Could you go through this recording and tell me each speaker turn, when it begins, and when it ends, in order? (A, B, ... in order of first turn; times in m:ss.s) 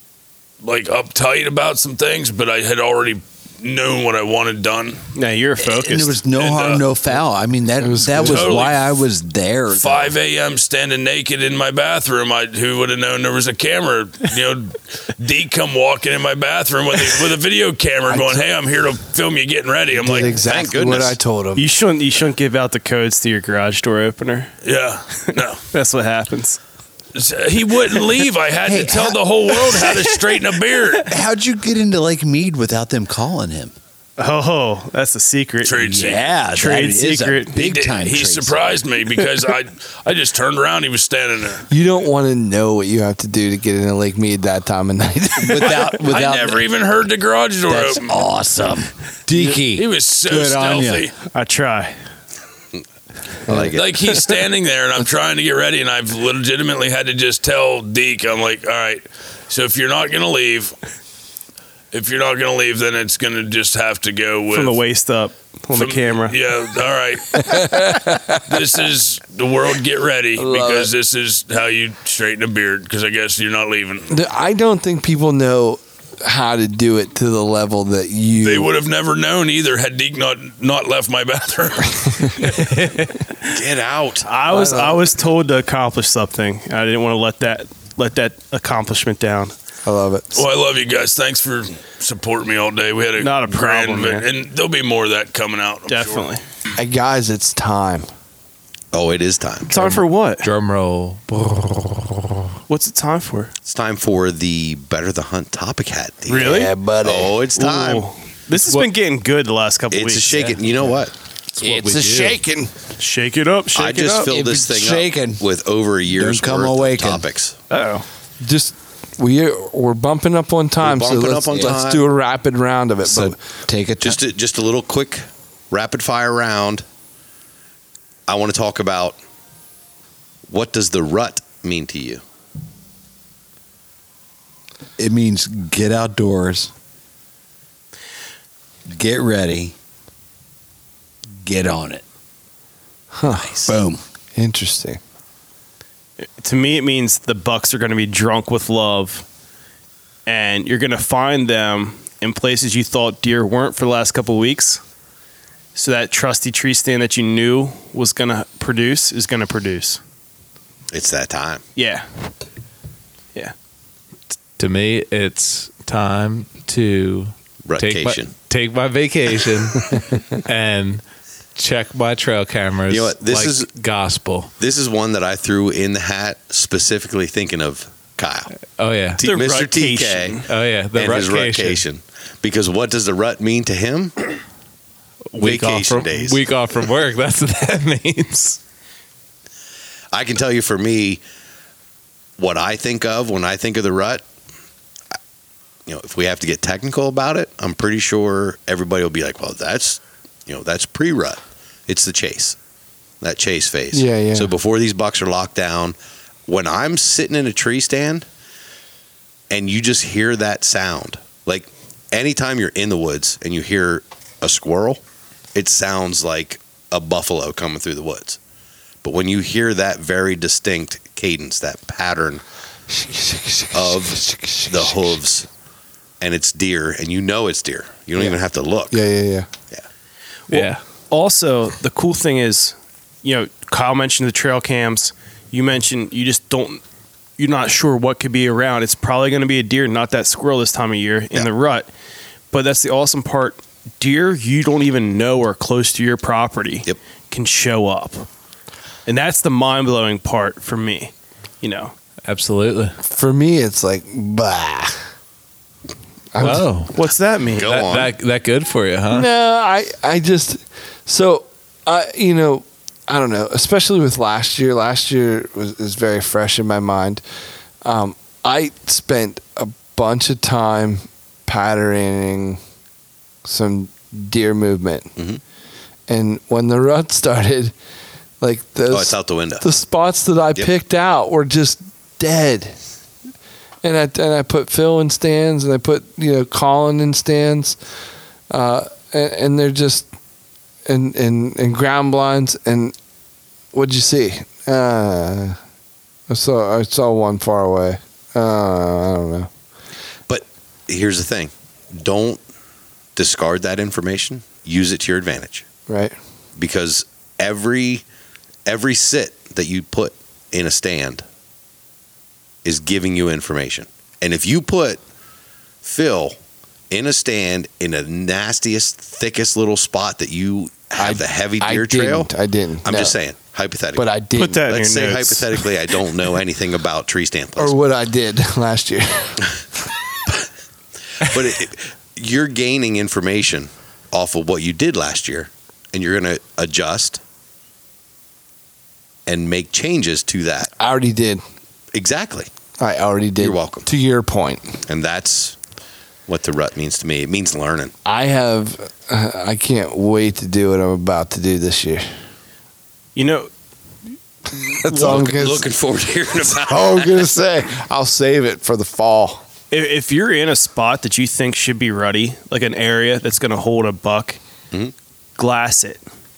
0:00.6-0:05.0 A
0:05.2-0:06.2 B
0:05.6-0:10.2 C
0:06.4-0:06.8 A
0:07.8-0:08.6 D
0:08.2-0:08.8 A
0:09.7-0:20.4 A
0:18.1-0:18.4 D
0:20.0-0:21.6 D
0:20.2-0:21.2 E
0:21.6-0:24.5 B
0:24.6-0:25.6 A
0:25.7-0:26.6 B
0:27.2-0:31.1 A
0:28.6-0:30.1 C
0:31.1-0:33.8 C
0:34.2-0:35.8 B
0:35.6-0:36.2 A
0:35.8-0:38.7 C
0:36.5-0:37.6 B
0:37.6-0:41.7 A
0:41.7-0:45.8 D
0:45.4-0:46.7 C
0:45.9-0:48.2 A
0:47.7-0:51.1 C
0:49.4-0:51.1 A
0:51.3-0:51.9 B
0:53.5-0:53.8 D
0:53.5-0:54.0 E
0:53.7-1:00.8 A
1:01.9-1:04.8 A
1:04.5-1:06.4 B
1:05.7-1:14.1 A
1:07.8-1:08.3 D
1:10.4-1:10.9 D
1:14.1-1:18.7 D
1:18.4-1:22.6 A
1:22.6-1:23.1 F
1:23.5-1:24.3 E
1:24.2-1:29.5 B
1:24.5-1:25.0 D
1:29.9-1:30.4 D
1:30.3-1:36.3 A
1:33.2-1:34.3 B
1:35.9-1:36.4 B
1:36.8-1:38.1 D
1:38.9-1:39.8 E
1:39.7-1:40.5 B
1:40.4-1:42.4 F
1:42.7-1:43.5 B
1:43.6-1:48.1 E
1:46.3-1:46.7 B
1:46.4-1:47.4 D
1:47.6-1:50.3 B
1:48.6-1:48.9 F
1:49.9-1:51.1 E
1:50.3-1:50.6 F
1:51.6-1:52.7 D
1:51.6-1:52.4 F
1:53.0-1:54.3 B
1:53.7-1:57.6 E
1:54.3-1:55.4 C
1:56.1-1:57.3 C
1:57.7-1:58.0 B
1:58.4-2:03.4 D
2:00.8-2:02.0 E
2:03.0-2:04.2 C
2:04.0-2:06.8 E
2:08.3-2:09.2 E
2:10.5-2:12.2 E
2:15.0-2:16.7 C
2:18.9-2:19.8 C
2:21.4-2:22.0 C
2:23.1-2:23.8 D
2:23.3-2:24.0 C
2:24.4-2:25.0 D
2:26.4-2:29.3 B
2:30.3-2:34.8 B
2:35.8-2:40.0 B
2:40.9-2:41.6 E
2:41.8-2:42.0 B
2:44.6-2:51.0 F
2:47.6-2:48.4 E
2:51.6-2:54.5 F
2:52.9-2:53.7 E
2:54.6-2:58.5 E
2:58.6-2:59.2 F
2:59.2-3:04.2 E
2:59.2-3:00.4 B
3:00.5-3:01.8 F
3:05.3-3:08.6 F
3:05.4-3:06.4 E
3:10.1-3:11.2 E
3:12.4-3:14.2 E
3:15.9-3:22.6 E
3:23.2-3:28.3 E
3:23.9-3:24.5 D
3:29.5-3:35.0 E
3:35.5-3:38.4 E
3:39.0-3:42.4 E
3:42.9-3:45.2 D
3:43.7-3:45.5 E
3:46.2-3:49.0 E
3:48.9-3:49.5 D
3:50.5-3:56.8 B
3:50.5-3:50.8 F
3:57.4-4:01.9 B
4:02.5-4:08.3 B
4:09.1-4:12.0 B
4:12.3-4:12.9 F
4:13.0-4:15.0 D
4:16.3-4:16.7 D
4:16.4-4:17.0 F
4:16.9-4:17.8 B
4:17.6-4:18.1 E
4:17.6-4:19.3 F
4:19.1-4:27.2 D
4:27.8-4:32.6 D
4:33.4-4:35.1 D
4:35.2-4:35.4 E
4:36.1-4:37.7 D
4:38.4-4:42.8 D
4:38.9-4:39.6 E
4:43.8-4:47.8 D
4:48.5-4:50.1 D
4:50.9-4:52.9 D
4:53.7-4:55.6 D
4:56.3-4:59.5 D
5:00.3-5:02.4 E
5:03.2-5:05.6 E
5:05.9-5:06.2 D
5:06.6-5:08.0 E
5:08.7-5:11.2 E
5:12.6-5:15.0 E
5:15.8-5:16.4 E
5:16.9-5:22.3 E
5:21.0-5:23.2 D
5:22.8-5:24.1 E
5:24.0-5:24.7 D
5:24.4-5:25.5 B
5:24.7-5:27.8 E
5:27.6-5:29.4 D
5:31.2-5:37.2 E
5:39.3-5:40.7 E
5:40.8-5:41.4 D
5:41.9-5:42.5 E
5:42.8-5:44.8 D
5:43.4-5:43.9 E
5:44.9-5:45.6 E
5:46.3-5:47.9 E
5:48.0-5:52.1 D
5:53.2-5:53.5 B
5:54.5-5:55.7 D
5:54.9-5:57.2 E
5:56.5-5:59.4 D
5:59.7-6:04.4 B
6:05.4-6:06.0 B